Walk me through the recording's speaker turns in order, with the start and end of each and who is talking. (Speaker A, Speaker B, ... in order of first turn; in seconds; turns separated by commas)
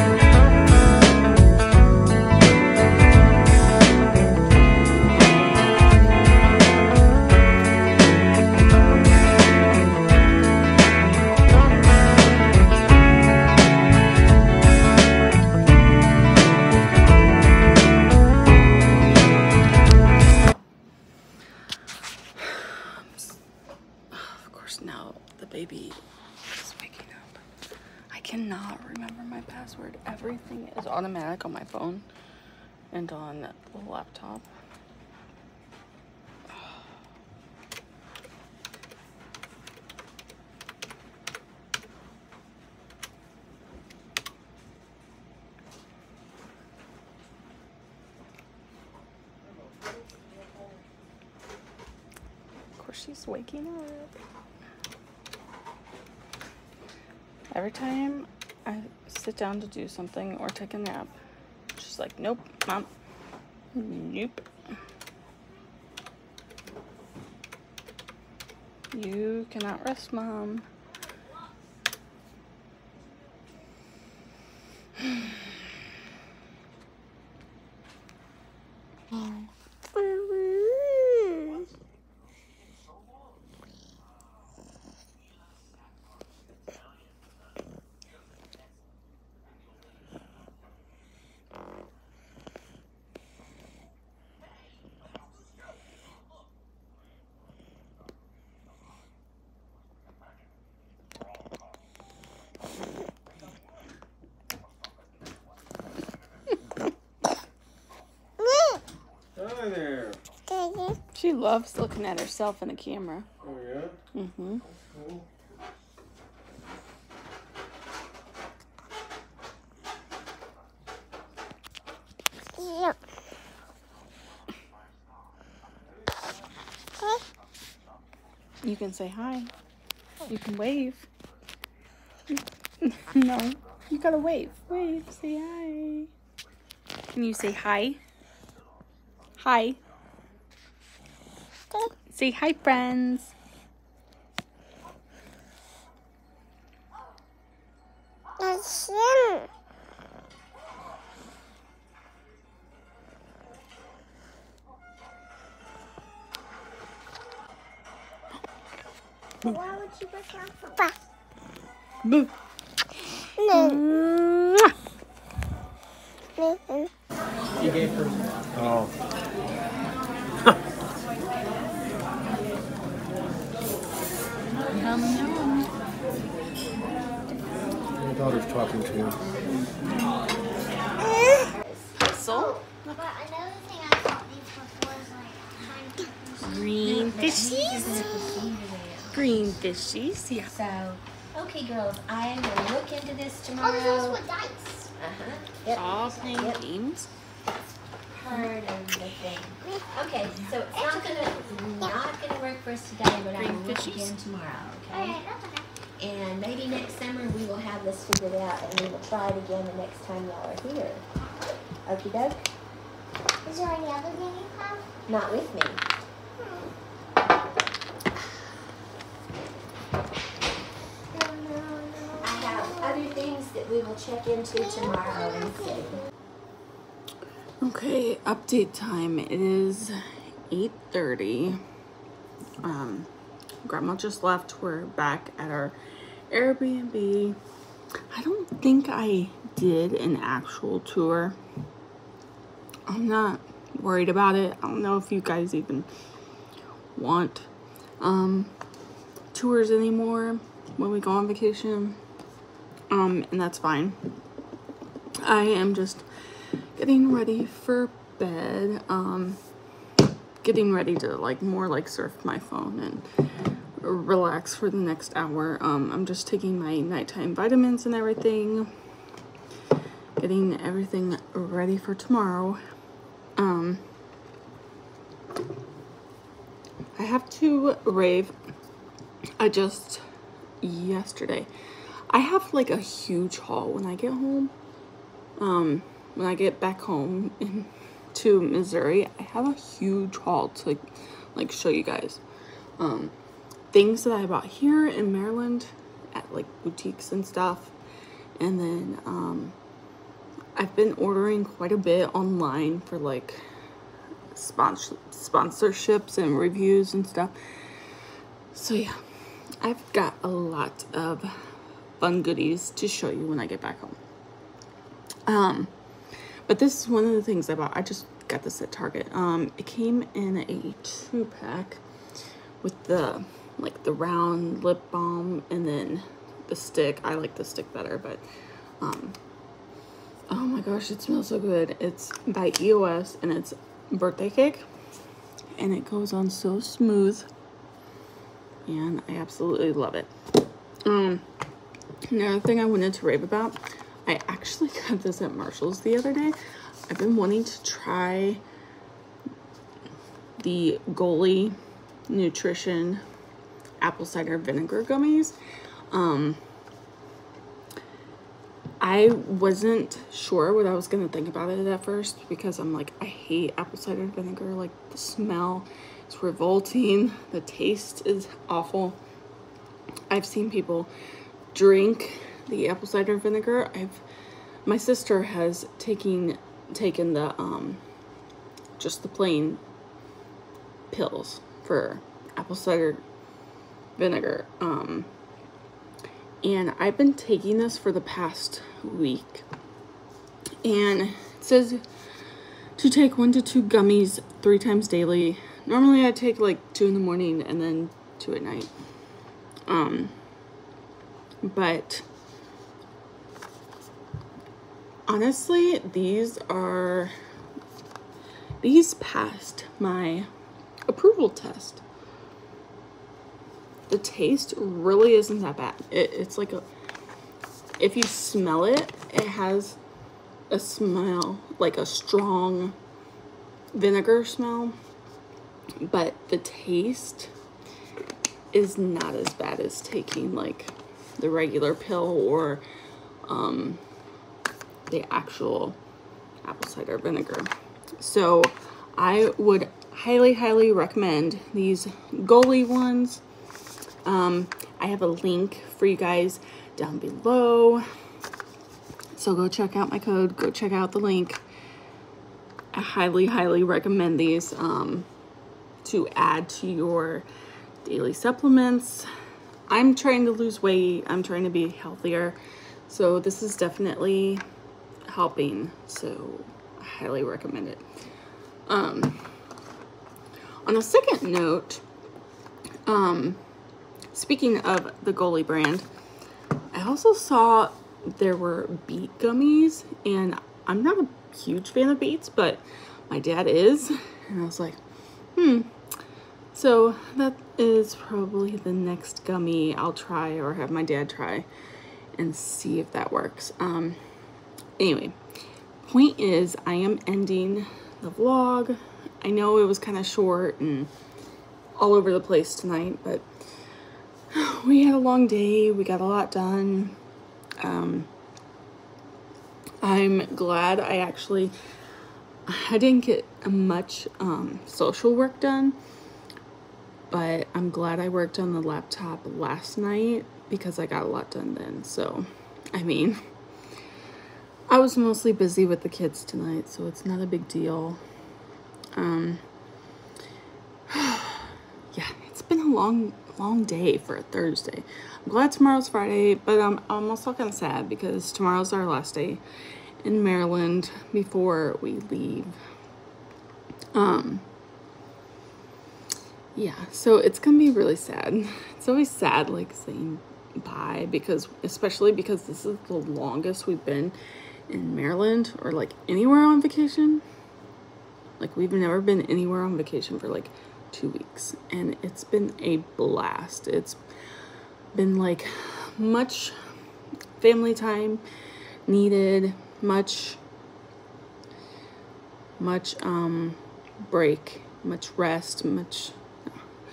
Speaker A: 22.4-23.3, Speaker A: 24.1-27.4, Speaker A: 28.1-32.0, Speaker A: 32.9-34.4, Speaker A: 52.8-54.1, Speaker A: 57.5-61.1, Speaker A: 61.8-62.9, Speaker A: 63.7-64.4, Speaker A: 68.9-70.6, Speaker A: 79.1-79.5, Speaker B: 80.0-80.9, Speaker B: 108.4-108.8, Speaker C: 109.3-110.2, Speaker B: 110.5-111.0, Speaker A: 111.1-113.3, Speaker C: 113.4-114.0, Speaker A: 114.1-114.6, Speaker C: 114.7-115.2, Speaker B: 122.6-123.0, Speaker A: 128.6-129.5, Speaker A: 130.3-131.1, Speaker A: 132.3-136.1, Speaker A: 137.1-138.0, Speaker A: 139.4-139.8, Speaker A: 142.1-143.3, Speaker B: 148.4-149.5, Speaker B: 159.4-161.0, Speaker A: 162.0-162.3, Speaker B: 163.4-163.8, Speaker A: 163.4-164.7, Speaker B: 166.4-166.8, Speaker C: 168.5-168.9, Speaker A: 174.7-175.7, Speaker C: 178.2-179.0, Speaker D: 181.4-182.0, Speaker A: 182.0-183.0, Speaker B: 182.3-186.5, Speaker A: 186.4-188.1, Speaker D: 186.7-189.6, Speaker A: 189.1-190.5, Speaker D: 190.5-194.2, Speaker B: 193.6-194.9, Speaker D: 195.0-196.6, Speaker A: 195.7-197.1, Speaker D: 198.1-205.2, Speaker B: 200.7-201.9, Speaker A: 203.3-204.1, Speaker B: 204.9-205.7, Speaker D: 206.0-211.0, Speaker D: 211.8-212.4, Speaker B: 213.4-214.9, Speaker D: 215.1-215.8, Speaker B: 221.1-223.3, Speaker D: 222.2-226.0, Speaker B: 224.7-225.6, Speaker A: 227.6-231.6, Speaker A: 232.6-233.1, Speaker A: 233.6-235.8, Speaker A: 236.3-237.4, Speaker A: 238.1-241.4, Speaker A: 242.9-245.9, Speaker A: 246.9-247.5, Speaker A: 248.0-248.5, Speaker A: 249.3-252.0, Speaker A: 252.9-254.0, Speaker A: 255.2-256.1, Speaker A: 256.7-259.4, Speaker A: 260.4-263.0, Speaker A: 263.8-268.7, Speaker A: 270.2-272.6, Speaker A: 273.4-273.8, Speaker A: 276.9-278.3, Speaker A: 279.4-280.0, Speaker A: 280.6-281.5, Speaker A: 282.1-284.5, Speaker A: 285.4-292.2, Speaker A: 292.8-293.1, Speaker A: 293.7-297.7, Speaker A: 298.4-299.6, Speaker A: 300.6-303.4, Speaker A: 304.3-307.3, Speaker A: 308.5-309.0, Speaker A: 309.6-311.3, Speaker A: 312.0-314.0, Speaker A: 315.3-315.7, Speaker A: 316.4-321.8, Speaker A: 322.6-328.2, Speaker A: 328.8-329.2, Speaker A: 330.3-334.6, Speaker A: 335.6-337.3, Speaker A: 338.6-340.1, Speaker A: 340.8-341.2, Speaker A: 342.1-346.4, Speaker A: 346.9-348.4, Speaker A: 350.4-351.6, Speaker A: 352.1-353.0, Speaker A: 353.8-355.3, Speaker A: 355.9-356.4, Speaker A: 358.8-369.0, Speaker A: 370.1-370.9, Speaker A: 371.5-374.0, Speaker A: 374.6-377.8, Speaker A: 378.8-379.6, Speaker A: 380.9-383.0, Speaker A: 384.0-385.1, Speaker A: 386.4-389.4, Speaker A: 390.6-391.8, Speaker A: 392.8-398.7, Speaker A: 399.7-400.1, Speaker A: 401.4-402.0, Speaker A: 405.1-407.1, Speaker A: 408.6-410.3, Speaker A: 410.9-411.8, Speaker A: 413.9-416.6, Speaker A: 417.8-419.8, Speaker A: 420.5-422.8, Speaker A: 423.7-424.8, Speaker A: 425.8-427.3, Speaker A: 428.5-432.6, Speaker A: 433.2-433.8, Speaker A: 434.9-435.8, Speaker A: 436.4-443.2, Speaker A: 444.0-447.8, Speaker A: 449.1-451.4, Speaker A: 452.7-455.1, Speaker A: 455.8-457.2, Speaker A: 457.8-459.1, Speaker A: 459.7-462.4, Speaker A: 462.9-464.4, Speaker A: 465.1-467.8, Speaker A: 468.7-469.4, Speaker A: 470.6-471.8, Speaker A: 472.9-473.4, Speaker A: 474.1-475.9, Speaker A: 476.7-484.8, Speaker A: 485.3-485.7, Speaker A: 486.5-491.5, Speaker A: 492.1-494.0, Speaker A: 494.8-495.2, Speaker A: 495.8-500.9, Speaker A: 501.8-503.2, Speaker A: 504.3-507.0, Speaker A: 507.6-508.1, Speaker A: 509.8-511.5, Speaker A: 512.5-515.8, Speaker A: 517.1-523.2, Speaker A: 524.7-528.0, Speaker A: 528.9-529.4, Speaker A: 530.9-539.4, Speaker A: 540.0-542.5, Speaker A: 543.9-544.5, Speaker A: 546.5-554.1, Speaker A: 554.7-557.2, Speaker A: 558.4-564.0, Speaker A: 564.9-566.5, Speaker A: 567.4-568.2, Speaker A: 568.9-570.4, Speaker A: 572.6-576.5